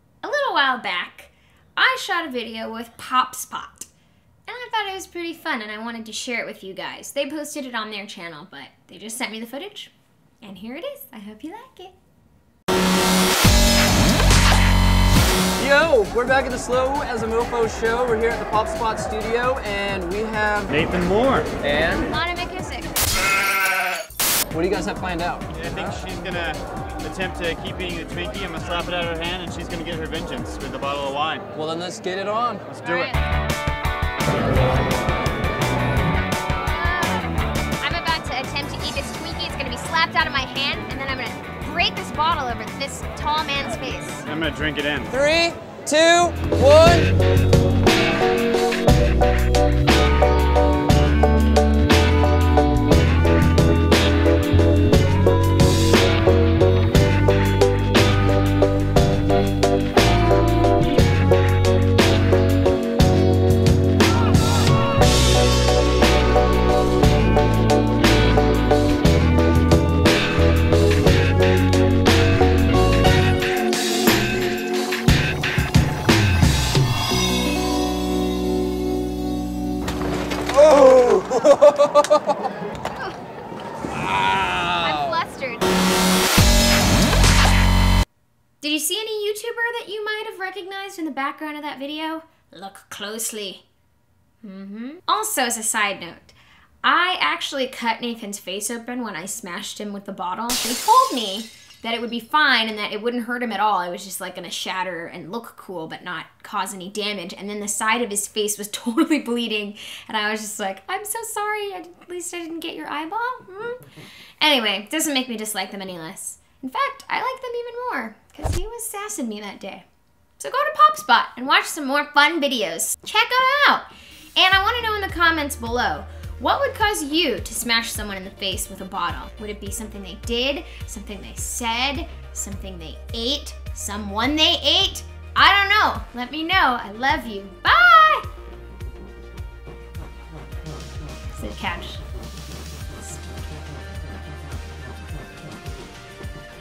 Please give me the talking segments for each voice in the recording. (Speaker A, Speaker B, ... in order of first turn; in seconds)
Speaker A: 0.2-3.9, 4.5-11.9, 22.0-22.9, 32.8-33.2, 36.6-44.3, 84.7-85.7, 88.6-93.6, 94.4-113.8, 114.4-119.8, 120.4-138.3, 141.3-142.0
Speaker B: 15.6-20.7, 21.6-22.1, 24.5-25.5, 31.5-32.7, 45.1-47.1, 80.7-81.5, 84.0-85.2
Speaker C: 20.7-21.5, 25.5-31.5, 32.7-33.1, 44.2-45.1